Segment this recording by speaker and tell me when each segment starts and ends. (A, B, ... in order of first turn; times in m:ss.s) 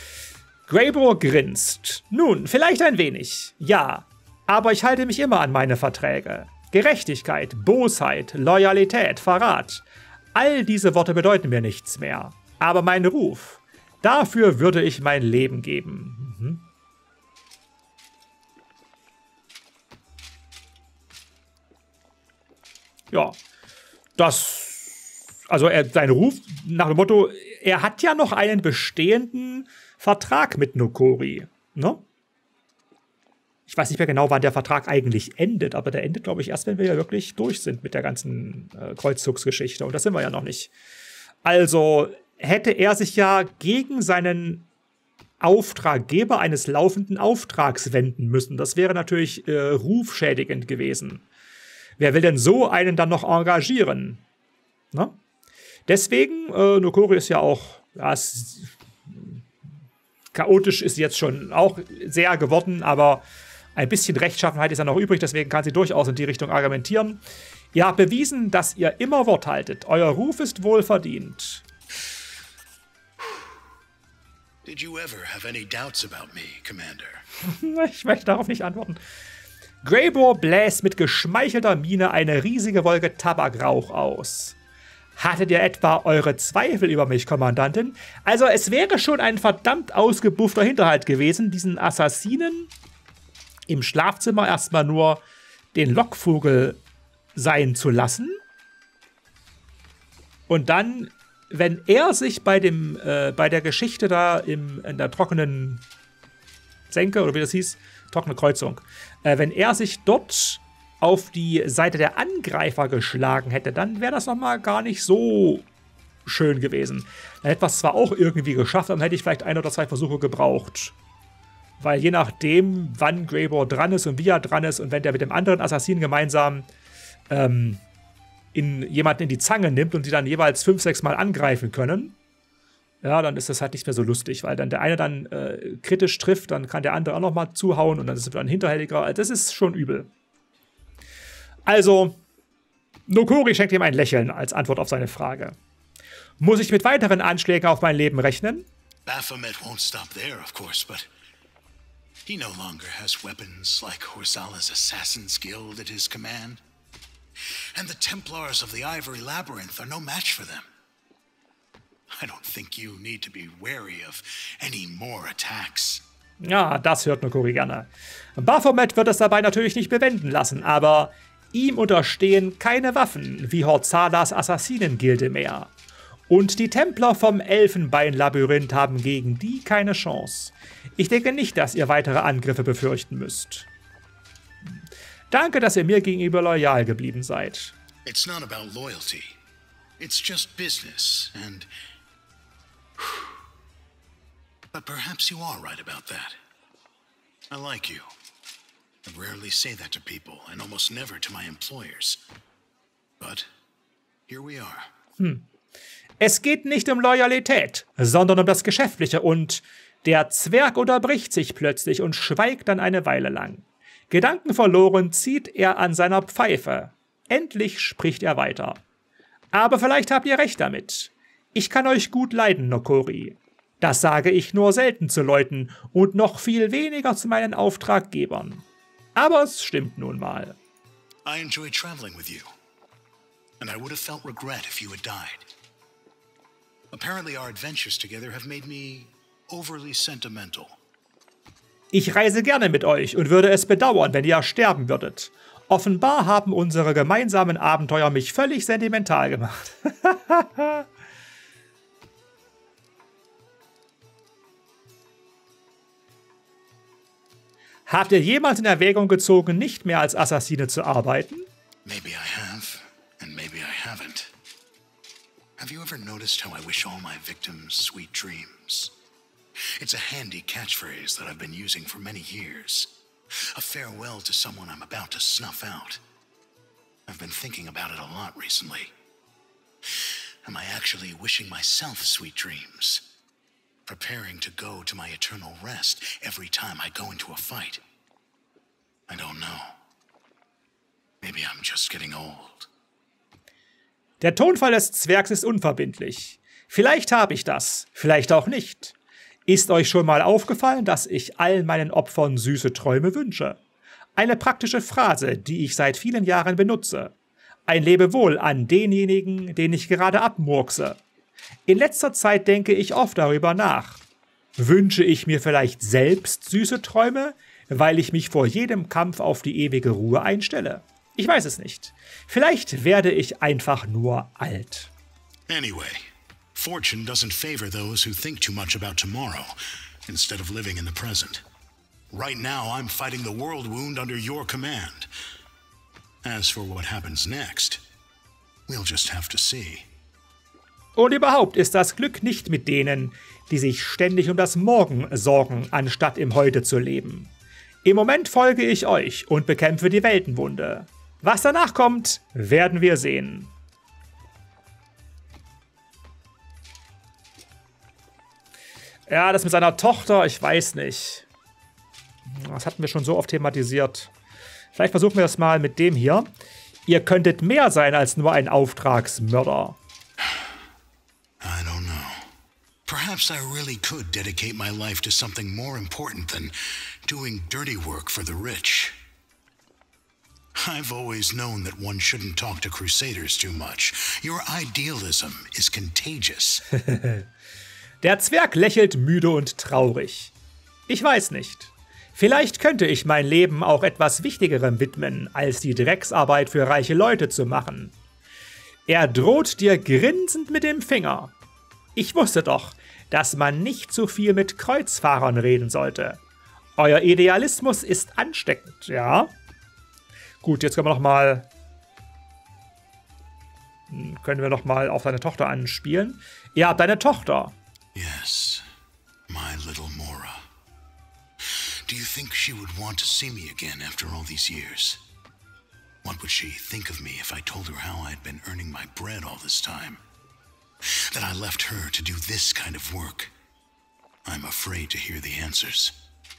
0:00.7-0:16.6 A
0:23.1-0:23.4 A
0:24.2-0:32.0 A
0:33.7-0:40.7 A
0:41.4-0:44.7 A
0:45.4-0:51.2 A
0:52.0-0:54.2 A
0:55.9-0:59.4 A
1:00.3-1:03.2 A
1:03.8-1:07.2 A
1:07.7-1:11.6 A
1:14.6-1:17.2 B
1:17.4-1:19.0 A
1:19.8-1:24.6 A
1:25.2-1:32.7 A
1:33.7-1:35.2 A
1:35.7-1:36.8 A
1:37.4-1:38.4 A
1:40.5-1:45.8 A
1:46.9-1:55.7 A
1:56.3-2:01.0 A
2:01.8-2:06.7 A
2:07.3-2:07.8 A
2:08.5-2:12.2 A
2:13.0-2:20.1 A
2:21.7-2:22.2 A
2:23.1-2:25.6 A
2:26.4-2:28.7 A
2:29.1-2:31.1 B
2:32.3-2:36.6 B
2:37.8-2:40.7 B
2:42.1-2:46.0 B
2:46.4-2:55.7 A
2:56.3-3:03.7 A
3:05.3-3:07.8 A
3:08.0-3:09.4 B
3:10.0-3:11.7 B
3:14.7-3:16.4 B
3:17.5-3:18.1 B
3:19.0-3:22.2 B
3:23.2-3:23.5 B
3:24.3-3:24.9 B
3:25.2-3:25.4 A
3:26.2-3:38.8 A
3:39.5-3:48.6 A
3:49.2-3:50.6 A
3:51.2-3:52.5 B
3:53.6-3:55.5 B
3:56.9-4:00.8 B
4:01.9-4:10.8 A
4:17.9-4:21.5 A
4:21.8-4:24.3 B
4:25.6-4:28.9 B
4:29.8-4:36.0 B
4:37.1-4:38.9 B
4:40.0-4:43.0 B
4:43.9-4:47.8 B
4:49.1-4:49.8 B
4:51.2-4:52.7 B
4:54.2-4:59.0 A
4:59.5-5:03.6 A
5:04.2-5:07.1 A
5:07.7-5:11.0 A
5:11.7-5:14.0 A
5:14.6-5:24.9 A
5:25.5-5:29.6 B
5:30.1-5:31.4 B
5:32.1-5:35.1 B
5:36.2-5:37.8 B
5:38.7-5:39.9 B
5:41.0-5:47.3 A
5:47.8-5:53.5 A
5:59.1-6:01.3 A
6:02.3-6:04.1 A
6:04.7-6:06.3 A
6:06.9-6:09.8 A
6:11.4-6:12.3 B
6:12.9-6:19.0 B
6:20.6-6:26.6 B
6:26.8-6:27.2 A
6:28.0-6:30.3 A
6:30.9-6:38.0 A
6:38.9-6:41.3 A
6:42.0-6:46.2 A
6:46.8-6:49.3 A
6:50.4-6:51.5 A
6:53.9-6:57.6 A
6:57.9-6:58.6 B
6:59.3-7:00.4 B
7:01.4-7:05.0 B
7:06.0-7:10.0 B
7:10.9-7:13.3 B
7:14.2-7:16.0 B